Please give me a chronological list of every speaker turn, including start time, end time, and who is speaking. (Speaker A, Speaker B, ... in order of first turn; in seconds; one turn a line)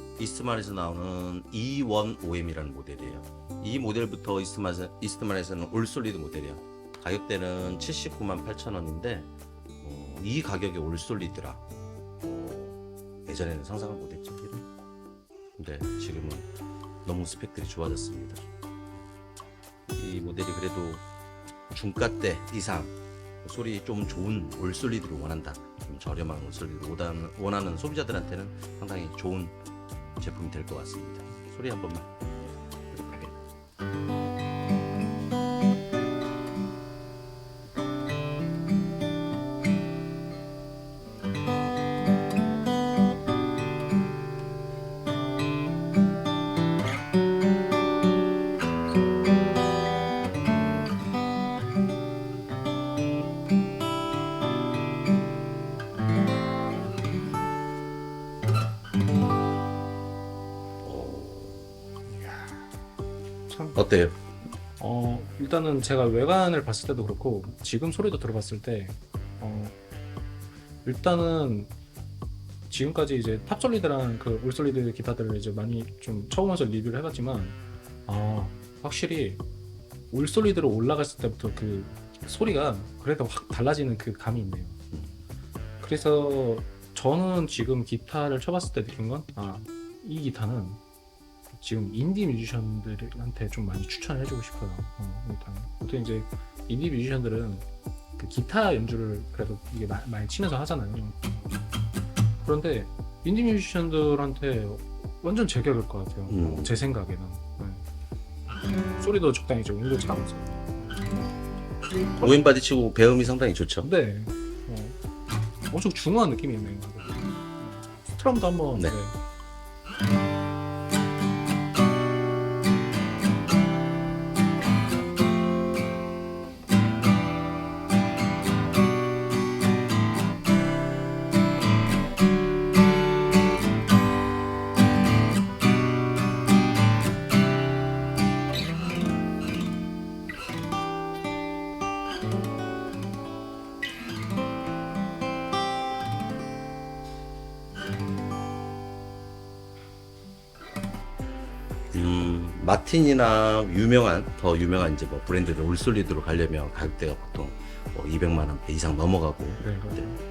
Speaker A: 0.2-11.6
Speaker A: 12.2-14.7
Speaker A: 15.6-16.5
Speaker A: 17.0-18.4
Speaker A: 19.9-21.1
Speaker A: 21.7-29.6
Speaker A: 30.2-32.2
Speaker A: 32.9-33.4
Speaker A: 60.8-61.7
Speaker B: 62.1-62.7
Speaker B: 63.5-63.8
Speaker A: 63.8-64.2
Speaker B: 64.8-69.8
Speaker B: 70.8-71.7
Speaker B: 72.7-79.4
Speaker B: 80.1-84.8
Speaker A: 84.9-85.2
Speaker B: 85.8-90.8
Speaker B: 91.5-97.7
Speaker B: 98.2-101.2
Speaker B: 102.4-107.8
Speaker A: 106.3-106.9
Speaker B: 109.0-111.1
Speaker B: 112.2-112.4
Speaker A: 112.2-113.9
Speaker B: 113.8-115.0
Speaker B: 115.7-119.2
Speaker A: 151.9-160.1
Speaker B: 159.6-160.2